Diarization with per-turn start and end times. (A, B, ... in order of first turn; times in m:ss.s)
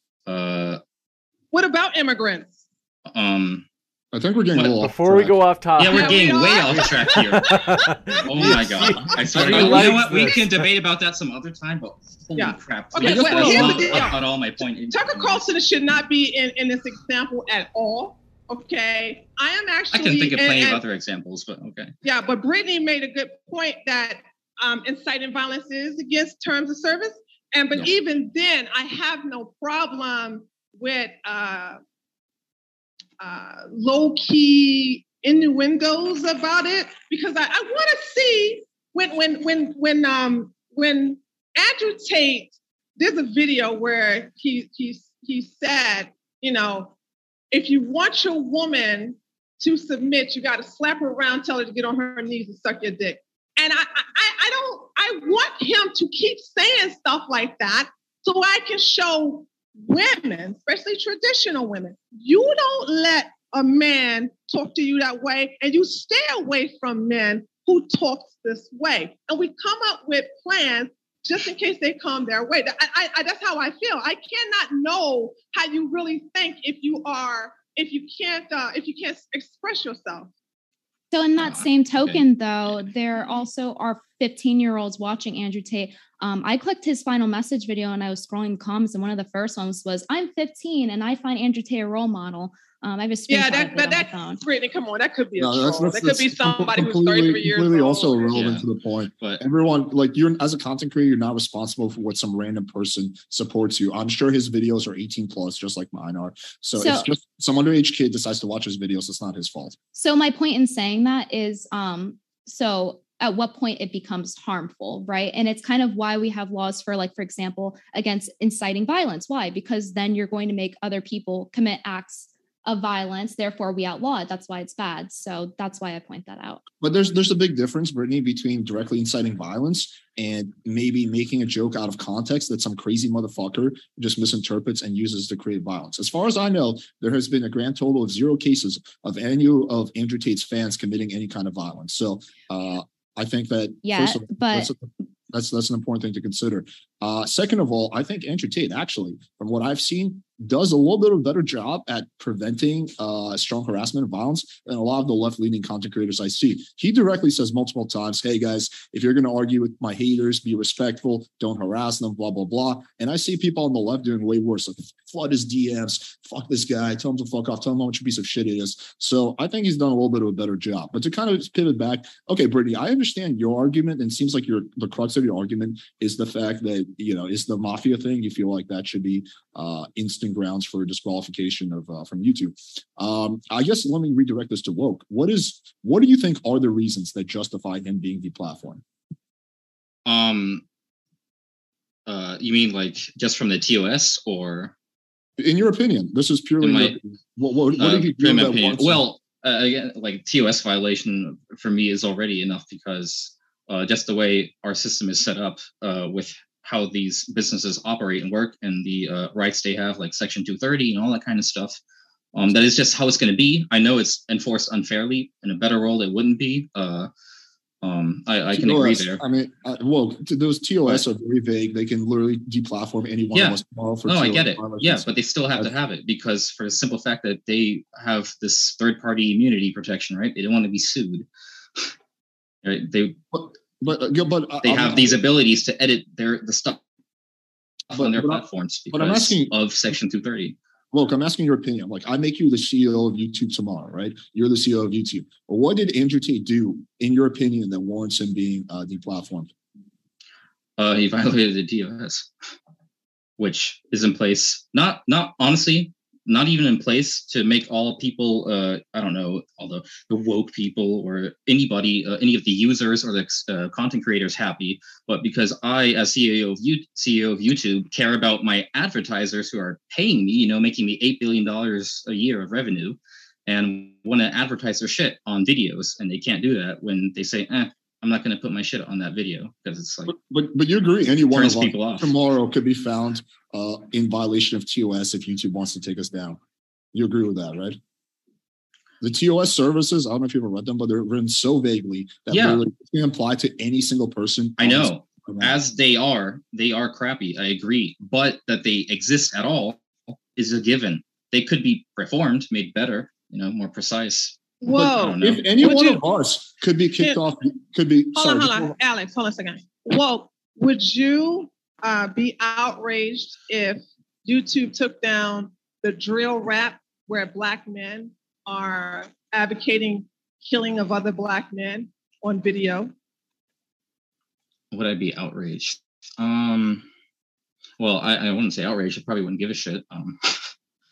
0:00.3-0:00.8 A
0:01.5-0:02.6 B
0:03.1-0:03.7 A
0:04.1-0:05.4 C
0:04.6-0:04.9 A
0:04.9-0:06.2 D
0:05.8-0:07.6 A
0:05.9-0:09.2 B
0:07.1-0:10.7 D
0:08.2-0:15.4 A
0:08.4-0:10.4 C
0:12.4-0:14.3 B
0:13.0-0:14.1 C
0:14.9-0:20.8 B
0:19.9-0:21.9 A
0:22.0-0:31.8 B
0:33.2-0:46.9 B
0:47.5-1:20.3 B
1:21.1-1:34.4 E
1:21.4-1:22.2 A
1:33.3-1:38.3 B
1:35.4-1:49.8 C
1:38.3-1:38.7 A
1:46.8-1:47.1 E
1:49.9-2:06.6 E
2:06.8-3:08.8 C
2:23.8-2:24.7 E
3:10.1-3:10.6 A
3:12.1-3:14.8 A
3:15.4-3:19.0 C
3:16.6-3:17.0 A
3:17.8-3:31.8 A
3:32.3-3:37.1 A
3:37.8-3:39.2 A
3:38.5-3:45.7 C
3:43.3-3:51.3 A
3:52.6-3:53.2 A
3:53.3-3:55.2 C
3:54.6-3:56.8 A
3:57.9-4:00.6 A
3:57.9-3:59.5 C
4:00.9-4:09.5 C
4:10.8-4:12.3 A
4:13.4-4:40.1 A
4:40.1-4:46.4 C
4:41.3-4:42.1 A
4:46.9-4:47.8 C
4:49.0-4:55.6 C
4:52.3-4:52.6 A
4:54.6-5:05.5 A
5:04.6-5:06.0 B
5:04.7-5:08.8 C
5:08.1-5:22.9 B
5:24.7-5:26.9 A
5:27.8-5:30.5 A